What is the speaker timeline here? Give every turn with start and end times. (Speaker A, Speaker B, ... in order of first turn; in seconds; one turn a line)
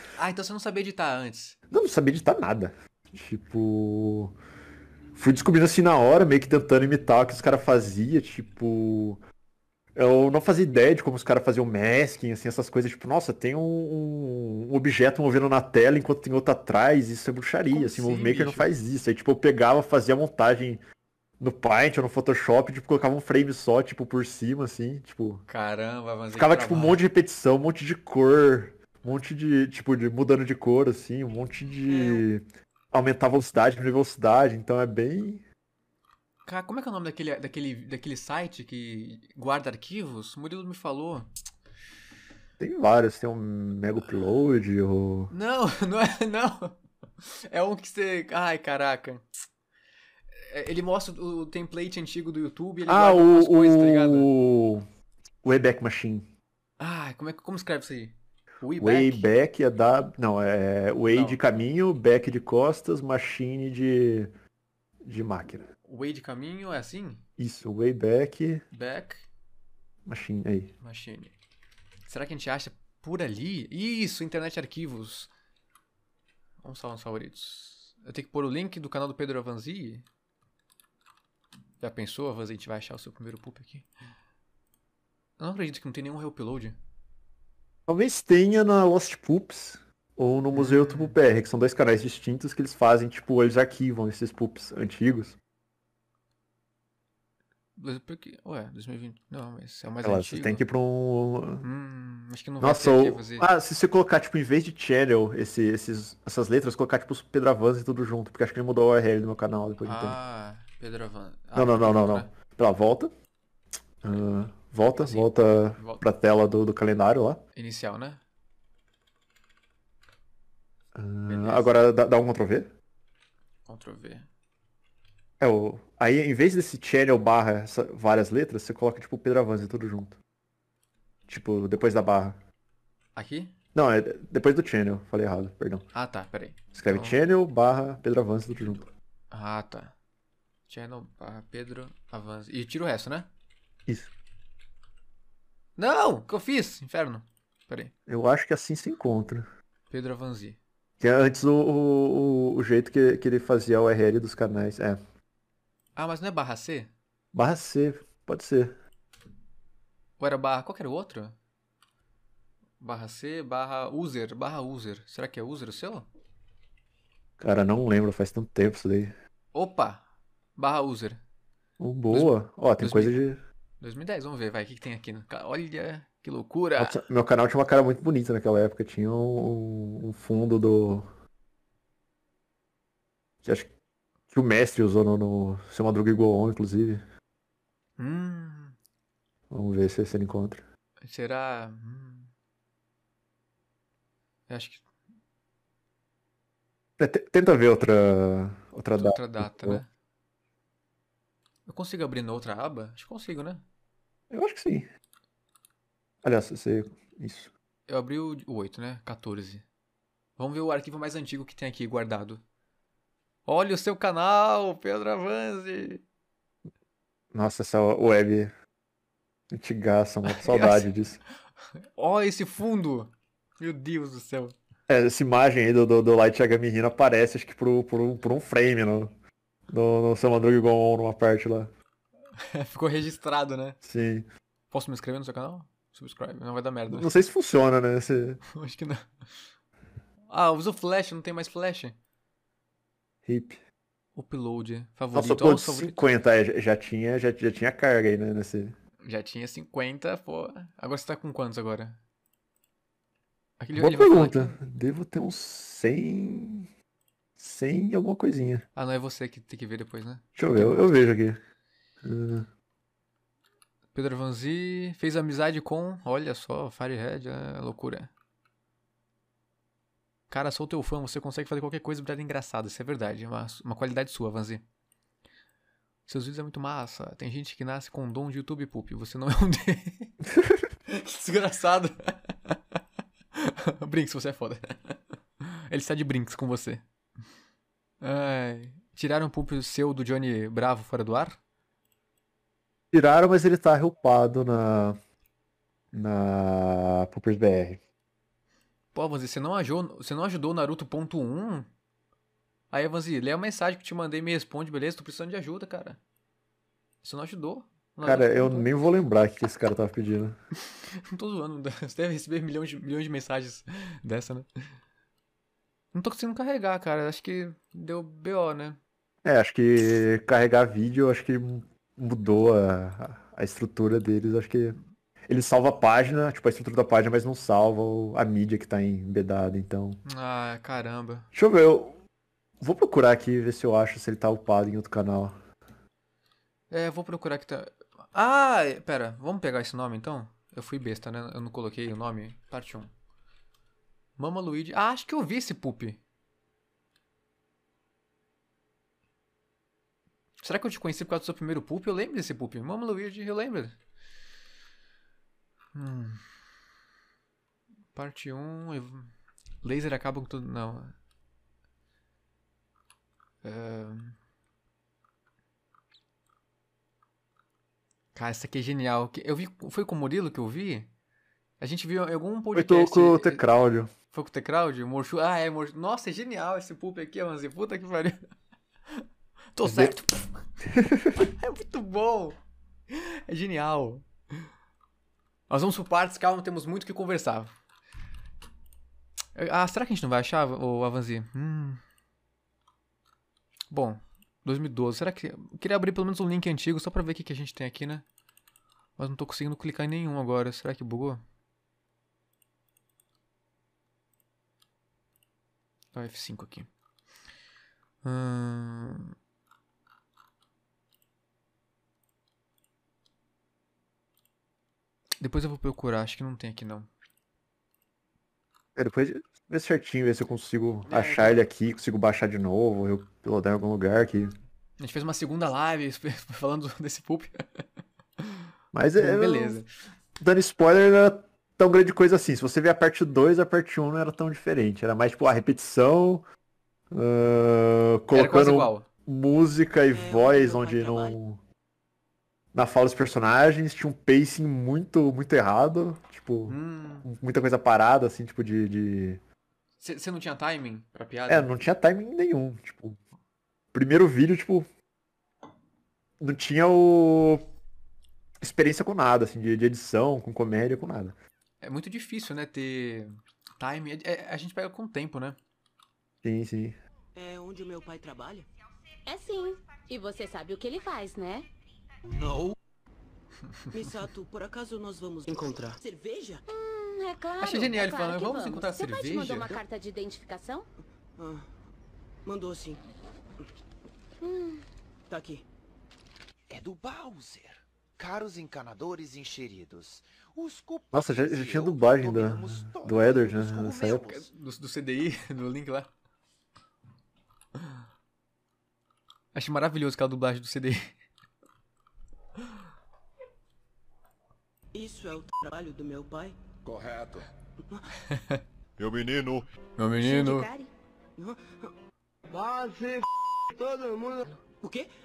Speaker A: 0.2-1.6
Speaker B: 1.7-4.3
Speaker B: 5.1-9.2
Speaker B: 9.9-20.8
Speaker A: 17.7-18.7
Speaker B: 21.4-25.4
Speaker A: 25.5-27.0
Speaker B: 26.3-35.4
Speaker A: 31.9-32.2
Speaker A: 36.4-41.3
Speaker B: 42.6-45.3
Speaker A: 45.3-46.8
Speaker A: 47.5-49.2
Speaker A: 50.5-54.3
Speaker B: 52.9-54.9
Speaker B: 55.4-56.3
Speaker A: 56.8-59.3
Speaker B: 58.8-64.3
Speaker A: 61.1-61.4
Speaker B: 65.0-65.7
Speaker A: 65.8-67.2
Speaker B: 67.4-68.6
Speaker A: 68.7-69.2
Speaker B: 70.0-70.7
Speaker A: 70.8-71.3
Speaker A: 72.0-75.3
Speaker A: 76.6-80.0
Speaker A: 81.8-83.9
Speaker A: 85.4-86.8
Speaker B: 87.9-95.4
Speaker A: 90.5-91.2
Speaker A: 97.8-100.6
Speaker B: 100.0-101.6
Speaker A: 101.6-103.5
Speaker B: 102.6-110.2
Speaker A: 109.8-112.3
Speaker B: 111.5-113.1
Speaker B: 114.0-117.4
Speaker A: 115.0-116.0
Speaker A: 117.5-118.2
Speaker B: 120.9-122.7
Speaker A: 121.3-121.8
Speaker A: 123.7-124.3
Speaker B: 125.4-130.2
Speaker B: 131.3-132.4
Speaker A: 133.2-133.5
Speaker B: 133.7-135.8
Speaker A: 135.9-137.2
Speaker B: 136.7-138.9
Speaker A: 139.3-139.9
Speaker A: 140.7-143.3
Speaker A: 145.8-147.9
Speaker B: 148.1-149.5
Speaker A: 149.9-150.6
Speaker B: 151.0-155.0
Speaker A: 155.9-156.9
Speaker B: 157.3-158.8
Speaker A: 160.2-161.3
Speaker A: 162.8-166.1
Speaker B: 167.4-169.2
Speaker A: 169.5-170.0
Speaker A: 170.6-171.2
Speaker B: 171.8-173.4
Speaker A: 172.1-173.2
Speaker A: 173.8-177.0
Speaker B: 176.8-181.1
Speaker B: 183.4-183.7
Speaker B: 184.3-187.0
Speaker A: 188.0-188.8
Speaker B: 189.5-190.6
Speaker A: 191.0-192.3
Speaker A: 194.5-194.8
Speaker B: 197.0-199.8
Speaker A: 198.9-199.9
Speaker A: 201.7-203.6
Speaker B: 204.3-204.9
Speaker B: 206.2-207.5
Speaker A: 207.9-209.6
Speaker A: 210.4-212.4
Speaker A: 213.4-216.0
Speaker B: 217.3-218.5
Speaker B: 219.5-221.2
Speaker A: 220.3-220.9
Speaker A: 221.9-224.5
Speaker B: 224.9-229.2
Speaker B: 229.7-231.7
Speaker A: 232.5-233.8
Speaker B: 233.8-234.3
Speaker A: 234.7-237.1
Speaker B: 236.9-238.4
Speaker A: 238.5-239.1
Speaker A: 240.3-241.9
Speaker B: 243.2-243.6
Speaker A: 244.1-246.0
Speaker B: 245.1-248.8
Speaker A: 249.0-252.0
Speaker A: 253.6-254.6
Speaker B: 253.7-256.7
Speaker B: 257.4-258.6
Speaker A: 258.7-261.0
Speaker B: 260.4-261.4
Speaker B: 262.0-262.5
Speaker A: 263.9-268.1
Speaker A: 270.3-274.6
Speaker A: 276.1-280.1
Speaker B: 280.3-280.7
Speaker A: 280.9-282.5
Speaker A: 283.4-284.9
Speaker A: 285.7-286.8
Speaker A: 288.0-291.4
Speaker B: 292.9-295.0
Speaker B: 295.9-297.8
Speaker A: 298.9-301.7
Speaker A: 302.7-306.0
Speaker A: 307.0-308.7
Speaker B: 308.0-310.4
Speaker A: 311.1-314.4
Speaker A: 315.9-318.8
Speaker B: 319.2-330.0
Speaker A: 330.0-331.3
Speaker B: 331.3-332.0
Speaker B: 332.6-335.4
Speaker A: 336.7-342.9
Speaker A: 344.2-346.0
Speaker A: 350.4-353.7
Speaker A: 355.7-356.2
Speaker A: 357.9-359.1
Speaker A: 359.6-360.9
Speaker A: 363.4-364.1
Speaker A: 368.1-370.9
Speaker A: 371.6-373.4
Speaker B: 372.5-373.9
Speaker A: 374.1-378.2
Speaker A: 379.6-380.3
Speaker B: 379.6-379.9
Speaker B: 380.6-381.3
Speaker A: 381.4-382.4
Speaker A: 382.9-384.1
Speaker A: 385.5-387.5
Speaker A: 389.4-391.8
Speaker A: 393.7-398.0
Speaker A: 399.0-401.2
Speaker A: 405.9-406.7
Speaker A: 408.0-409.1
Speaker A: 415.2-416.9
Speaker B: 418.8-424.3
Speaker A: 420.9-421.4
Speaker A: 424.8-427.4
Speaker B: 428.7-429.6
Speaker A: 429.0-429.7
Speaker B: 430.2-436.2
Speaker B: 436.9-441.4
Speaker A: 438.1-438.8
Speaker C: 439.9-441.1
Speaker B: 442.5-449.2
Speaker A: 446.5-447.1
Speaker A: 449.8-451.5
Speaker B: 451.3-453.0
Speaker B: 453.7-454.7
Speaker B: 456.2-457.4
Speaker B: 458.4-461.2
Speaker A: 461.6-465.4
Speaker B: 466.2-466.8
Speaker C: 467.1-468.5
Speaker D: 469.1-471.5
Speaker C: 473.7-476.4
Speaker D: 476.5-480.7
Speaker A: 477.4-479.6
Speaker C: 481.2-481.5
Speaker C: 482.2-482.8
Speaker D: 484.2-484.6
Speaker C: 485.1-485.4
Speaker E: 486.5-494.3
Speaker B: 490.9-494.2
Speaker A: 494.3-495.9
Speaker A: 499.3-500.9
Speaker C: 504.7-506.4
Speaker A: 508.1-508.4
Speaker A: 509.8-510.5
Speaker D: 510.0-510.7
Speaker C: 511.2-511.7
Speaker C: 514.6-514.9